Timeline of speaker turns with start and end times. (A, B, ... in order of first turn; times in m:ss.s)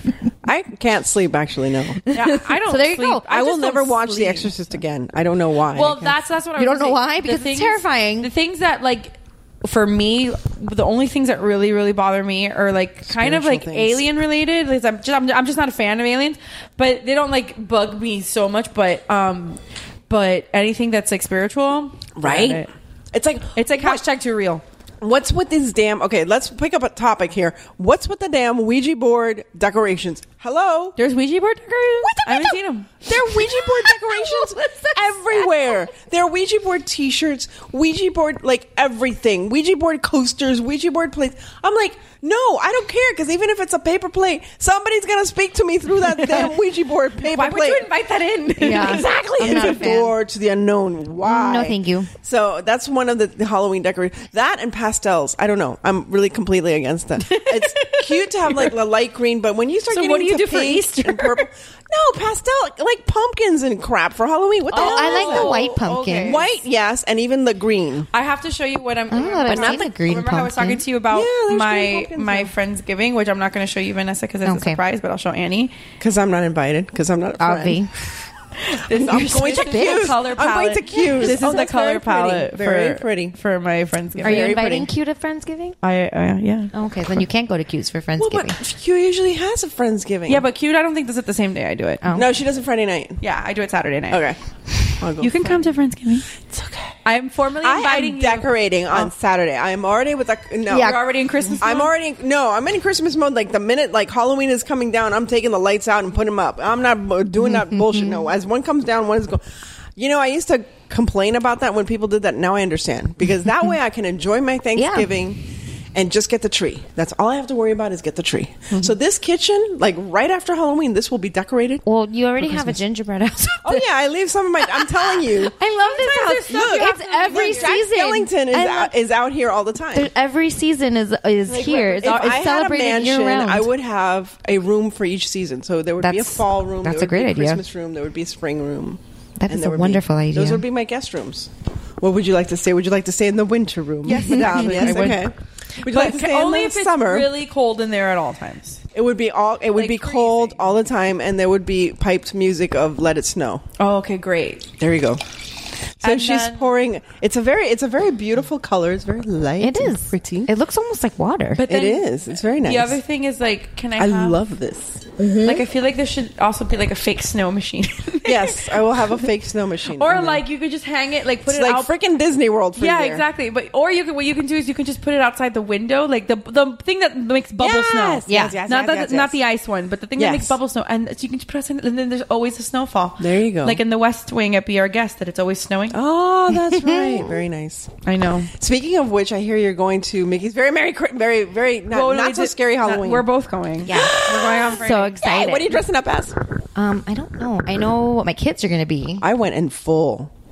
0:00.4-0:02.0 A
0:02.1-0:03.3 B
0:02.1-0:04.8 C
0:03.2-0:06.2 A
0:05.7-0:22.7 C
0:06.6-0:08.3 B
0:13.0-0:14.0 A
0:22.2-0:24.0 A
0:23.6-0:24.6 C
0:25.0-0:31.0 A
0:31.0-0:33.1 C
0:32.0-0:47.9 A
0:33.3-0:35.8 B
0:46.2-0:46.5 C
0:47.2-0:50.0 C
0:48.6-0:50.1 B
0:48.6-1:08.1 A
0:51.2-0:52.1 B
0:57.2-0:58.7 C
0:59.9-1:01.4 C
1:04.7-1:06.6 C
1:04.7-1:06.4 B
1:08.1-1:15.7 C
1:09.1-1:10.8 B
1:09.5-1:09.9 A
1:11.1-1:12.5 A
1:14.4-1:14.8 B
1:16.0-1:17.9 A
1:17.4-1:17.9 B
1:18.7-1:24.7 C
1:18.9-1:23.4 A
1:19.1-1:20.1 B
1:24.1-1:24.9 A
1:24.2-1:25.8 B
1:25.8-1:26.7 C
1:26.7-1:28.6 B
1:28.2-1:30.4 A
1:30.3-1:32.0 C
1:32.0-1:32.3 B
1:32.1-1:33.2 A
1:33.2-1:34.2 C
1:34.1-1:34.4 A
1:35.0-1:35.6 A
1:35.2-1:36.3 C
1:36.5-1:36.9 A
1:37.0-1:38.5 C
1:37.6-1:49.4 A
1:40.7-1:41.9 C
1:40.7-1:41.0 B
1:47.4-1:48.2 B
1:50.0-1:55.4 A
1:54.8-1:55.1 B
1:55.9-2:01.8 A
2:01.8-2:03.8 B
2:03.6-2:10.1 A
2:04.7-2:08.9 B
2:05.6-2:07.9 C
2:09.9-2:13.7 B
2:11.5-2:27.3 A
2:12.0-2:12.3 C
2:16.0-2:17.6 B
2:19.4-2:20.6 B
2:24.0-2:25.3 C
2:24.1-2:25.0 B
2:25.8-2:28.8 C
2:28.9-2:33.6 A
2:29.8-2:30.7 C
2:33.8-2:34.7 C
2:34.8-2:35.2 A
2:36.0-2:40.5 A
2:36.0-2:36.7 C
2:39.6-2:41.6 B
2:41.6-2:44.4 C
2:41.6-2:43.0 A
2:44.0-2:45.6 A
2:45.4-2:49.2 C
2:48.2-2:50.4 A
2:50.0-2:51.9 C
2:51.5-2:53.2 A
2:52.8-3:06.0 C
2:57.6-2:59.4 A
2:58.3-2:58.6 B
3:00.2-3:00.6 A
3:03.2-3:03.8 A
3:05.9-3:07.9 A
3:06.6-3:07.2 B
3:08.0-3:08.5 C
3:08.5-3:13.3 A
3:11.9-3:15.2 C
3:13.8-3:15.8 B
3:13.8-3:16.4 A
3:16.7-3:19.2 B
3:19.2-3:20.3 A